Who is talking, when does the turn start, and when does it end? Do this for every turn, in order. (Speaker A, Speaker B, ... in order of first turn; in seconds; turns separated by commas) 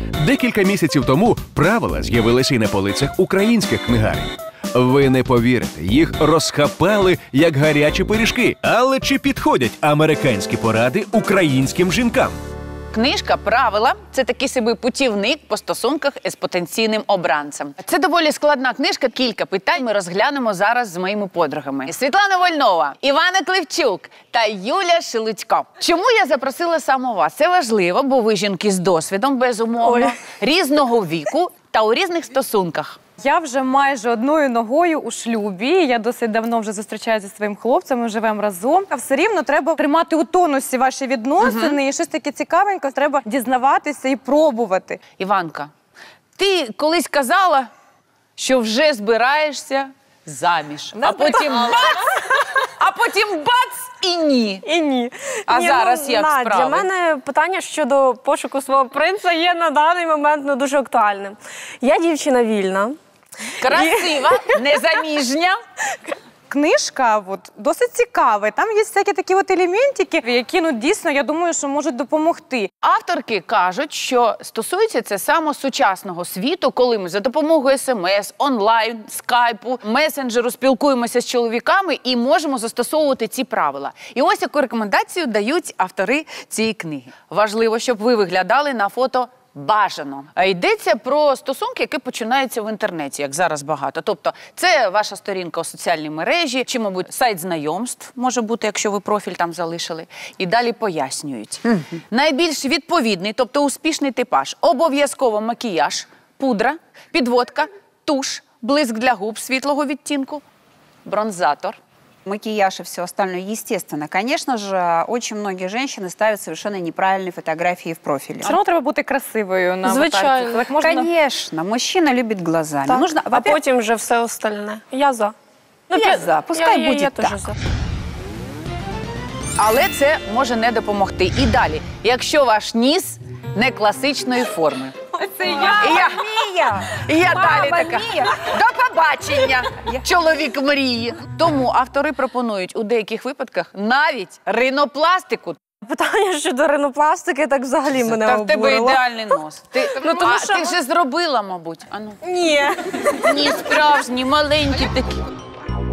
Speaker A: 0.2-12.4, Speaker B: 12.9-33.0, Speaker C: 29.8-30.2, Speaker D: 33.2-45.0, Speaker B: 41.4-41.8, Speaker B: 45.2-45.7, Speaker B: 46.4-47.7, Speaker B: 48.4-54.6, Speaker D: 50.9-51.7, Speaker C: 54.6-63.0, Speaker B: 55.5-56.9, Speaker B: 63.6-65.6, Speaker C: 63.6-64.5, Speaker D: 66.5-72.7, Speaker B: 72.8-110.4, Speaker B: 111.0-111.8, Speaker E: 112.2-118.5, Speaker D: 118.4-121.1, Speaker C: 119.8-120.7, Speaker E: 120.8-123.5, Speaker C: 122.9-125.3, Speaker C: 125.9-127.5, Speaker E: 125.9-127.5, Speaker B: 129.6-135.0, Speaker D: 135.1-135.9, Speaker E: 135.7-138.4, Speaker B: 135.8-136.2, Speaker B: 136.8-145.6, Speaker E: 139.7-140.0, Speaker C: 145.8-149.0, Speaker B: 148.0-152.2, Speaker C: 149.9-150.7, Speaker C: 152.2-153.4, Speaker B: 153.1-155.2